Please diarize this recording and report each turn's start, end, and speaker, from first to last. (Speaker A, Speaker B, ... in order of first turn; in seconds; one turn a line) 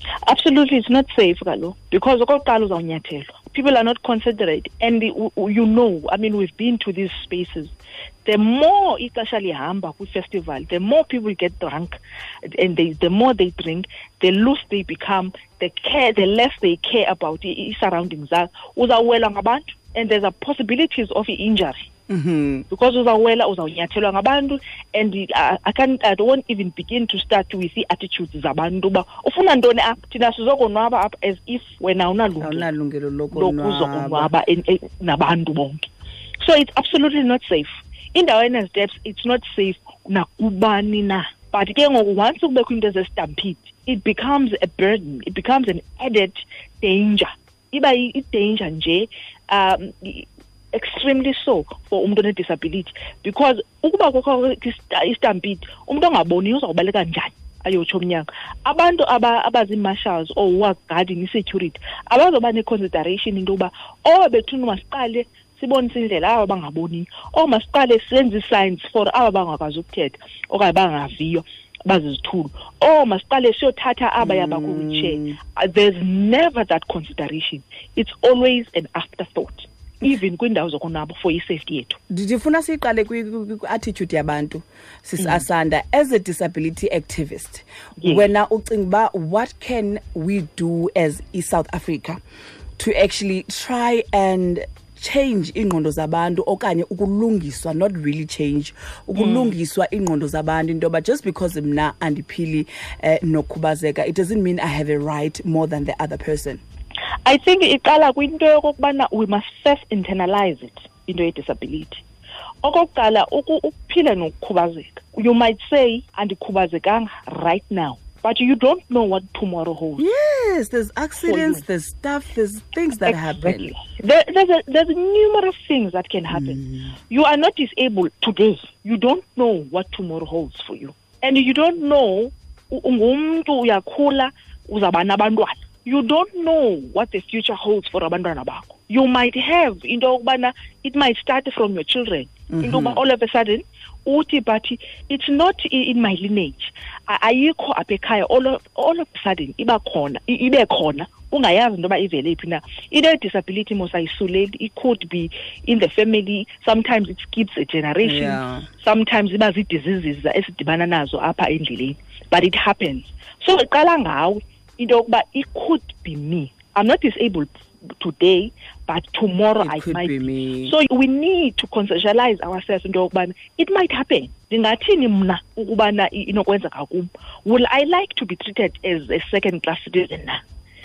Speaker A: 0.2-21.9
Speaker B: 22.1-22.6
Speaker A: 22.7-32.7
Speaker B: 32.4-34.3
Speaker A: 33.3-82.0
Speaker B: 74.2-75.4
Speaker B: 82.1-92.2
Speaker A: 85.2-85.4
Speaker A: 88.0-88.2
Speaker B: 92.8-106.6
Speaker A: 99.1-99.5
Speaker A: 107.2-112.0
Speaker A: 112.6-120.0
Speaker B: 120.0-123.7
Speaker A: 121.2-121.6
Speaker A: 123.0-180.4
Speaker B: 126.3-126.9
Speaker B: 142.5-143.0
Speaker B: 158.0-158.7
Speaker B: 169.6-170.7